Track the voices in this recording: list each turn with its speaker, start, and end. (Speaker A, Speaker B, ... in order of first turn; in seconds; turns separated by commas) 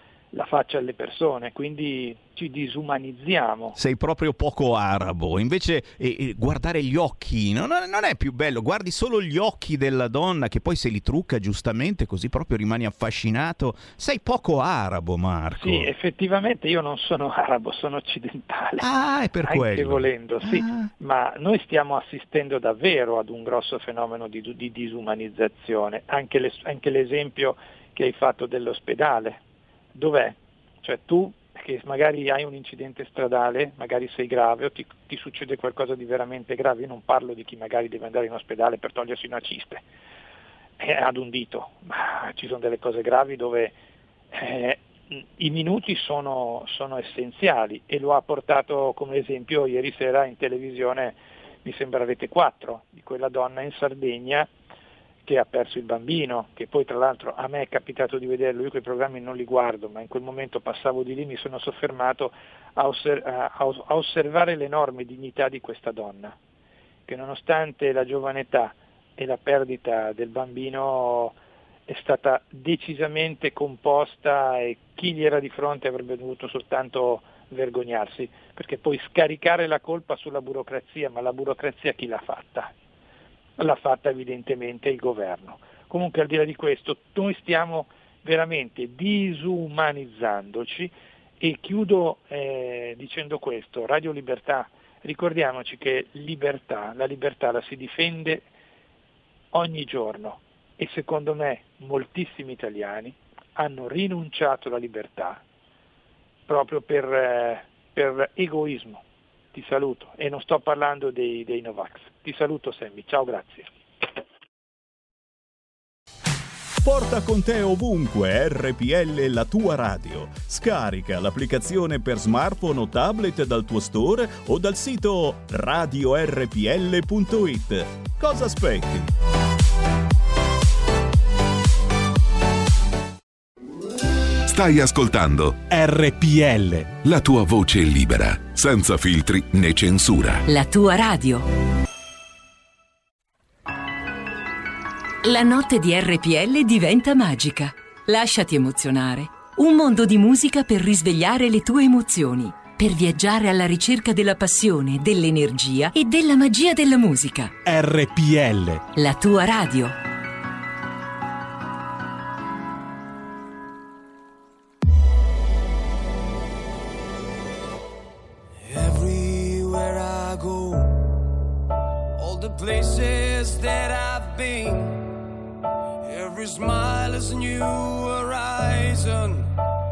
Speaker A: 0.3-3.7, Speaker B: 3.7-15.9, Speaker A: 15.6-18.9, Speaker B: 18.8-20.9, Speaker A: 19.4-29.4, Speaker A: 29.9-39.8, Speaker A: 40.8-43.7, Speaker A: 44.3-54.5, Speaker A: 55.2-66.3, Speaker A: 67.1-71.3, Speaker A: 71.9-82.7, Speaker A: 83.6-98.5, Speaker A: 99.5-105.4, Speaker A: 106.5-109.0, Speaker A: 109.5-113.7, Speaker B: 116.8-129.1, Speaker C: 134.5-135.6, Speaker D: 135.7-137.0, Speaker C: 137.0-140.4, Speaker E: 140.5-141.5, Speaker E: 145.2-157.5, Speaker D: 157.6-158.9, Speaker E: 158.9-159.9, Speaker F: 168.6-171.2, Speaker F: 172.2-175.1, Speaker F: 176.0-179.5